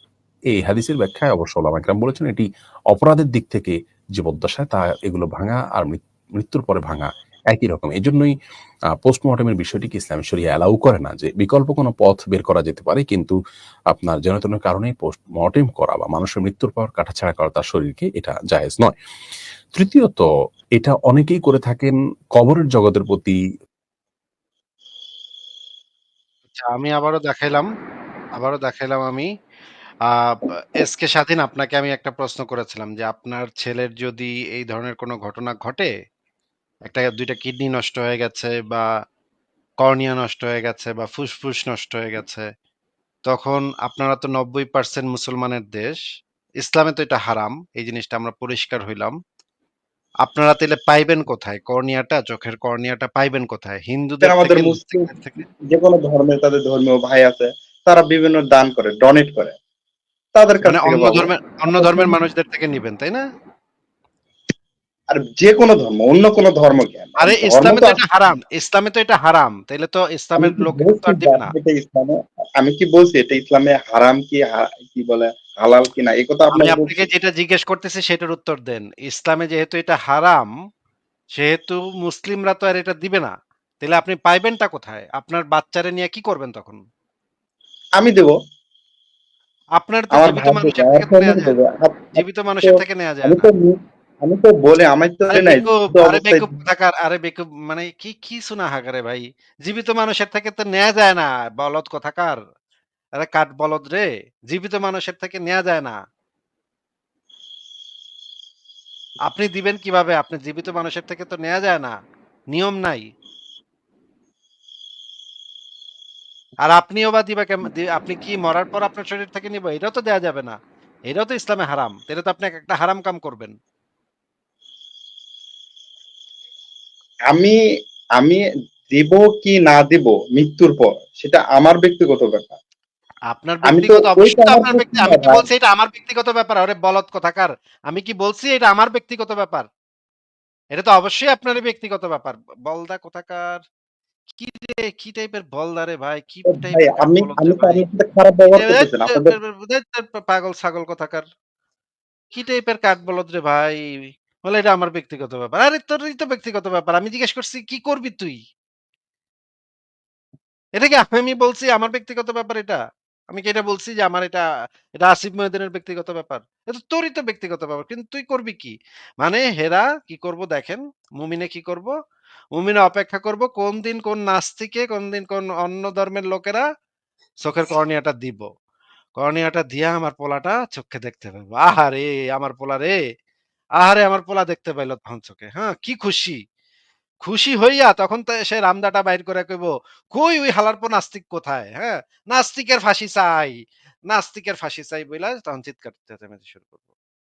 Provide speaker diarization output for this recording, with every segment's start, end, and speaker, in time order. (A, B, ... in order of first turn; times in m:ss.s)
0:00.5-0:08.3 A
0:09.0-0:13.4 A
0:13.9-0:19.0 A
0:19.7-0:23.4 A
0:26.5-0:27.7 B
0:28.4-0:29.3 B
0:30.1-0:35.9 B
0:36.8-0:38.9 B
0:39.8-0:42.5 B
0:43.3-0:46.0 B
0:46.6-0:49.2 B
0:50.2-0:55.4 B
0:54.2-0:55.1 C
0:55.7-0:59.6 C
1:00.3-1:02.1 C
1:00.6-1:03.2 B
1:05.1-1:08.0 C
1:07.2-1:11.5 B
1:10.4-1:17.1 C
1:16.5-1:20.5 B
1:21.4-1:26.8 B
1:28.0-1:28.4 C
1:29.8-1:31.6 B
1:30.1-1:36.6 C
1:32.1-1:33.5 B
1:35.3-1:42.4 B
1:43.2-1:46.0 B
1:49.2-1:52.0 B
1:52.5-1:53.1 B
1:56.7-2:00.6 B
2:01.1-2:03.5 B
2:07.3-2:07.6 C
2:08.2-2:12.6 C
2:13.3-2:19.7 B
2:13.6-2:15.4 C
2:20.7-2:23.6 B
2:24.3-2:27.8 B
2:26.5-2:29.4 C
2:28.5-2:31.2 B
2:32.3-2:33.8 B
2:34.4-2:38.4 B
2:40.8-2:42.8 B
2:43.3-2:44.4 B
2:45.0-2:51.9 B
2:52.5-2:56.6 B
2:57.4-2:58.5 B
2:59.2-3:03.0 B
3:03.8-3:06.4 B
3:07.2-3:16.8 B